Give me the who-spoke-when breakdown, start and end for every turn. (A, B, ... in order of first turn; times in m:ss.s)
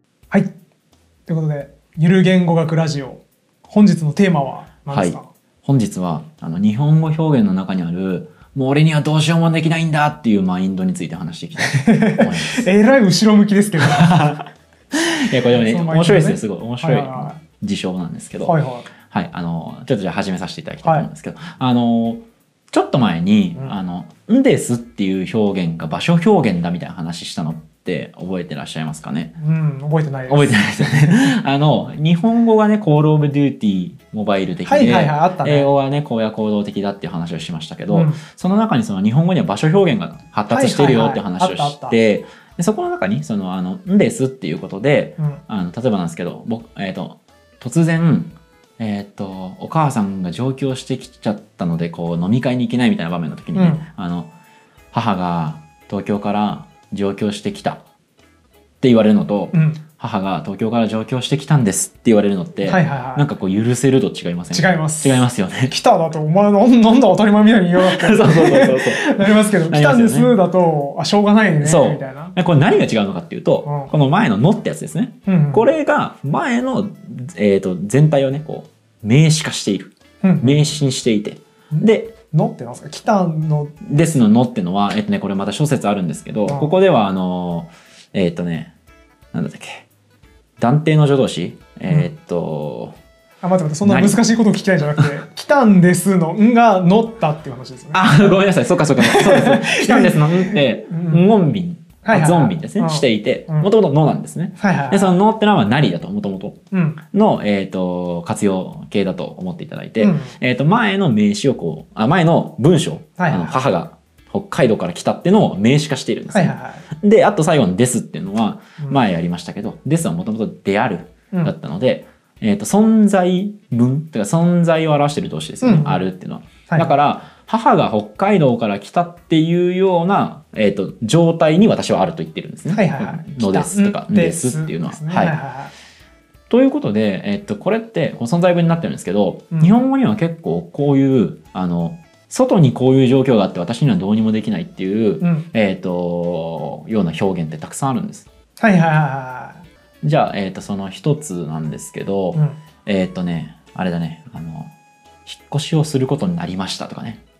0:01.3-0:05.3 A
0:04.9-0:12.7 B
0:11.8-0:14.3 A
0:13.8-0:29.3 B
0:15.6-0:17.4 A
0:18.4-0:18.9 A
0:29.4-0:31.2 A
0:30.3-0:54.3 B
0:34.6-0:35.7 A
0:37.9-0:38.2 A
0:40.5-0:42.0 A
0:53.5-0:53.8 A
0:54.9-0:57.8 B
0:58.8-1:05.7 B
0:59.5-0:59.8 A
1:02.6-1:03.3 A
1:04.5-1:12.4 A
1:07.8-1:10.3 B
1:11.6-1:22.1 B
1:13.6-1:13.9 A
1:15.2-1:15.7 A
1:20.2-1:20.8 A
1:21.7-1:23.8 A
1:23.8-1:28.7 B
1:26.5-1:26.7 A
1:29.3-1:29.9 B
1:30.6-1:32.9 B
1:33.4-1:38.0 A
1:33.8-1:34.2 B
1:37.9-1:46.6 B
1:39.0-1:41.3 A
1:42.0-1:43.7 A
1:44.6-1:45.2 A
1:46.7-1:47.0 A
1:47.1-2:15.3 B
1:50.0-1:50.4 A
1:53.2-1:53.6 A
1:56.3-1:56.9 A
2:05.6-2:06.0 A
2:06.7-2:07.0 A
2:12.7-2:15.7 A
2:16.5-2:28.3 B
2:25.2-2:25.5 A
2:28.6-2:29.6 A
2:30.0-2:34.7 B
2:35.2-2:37.2 B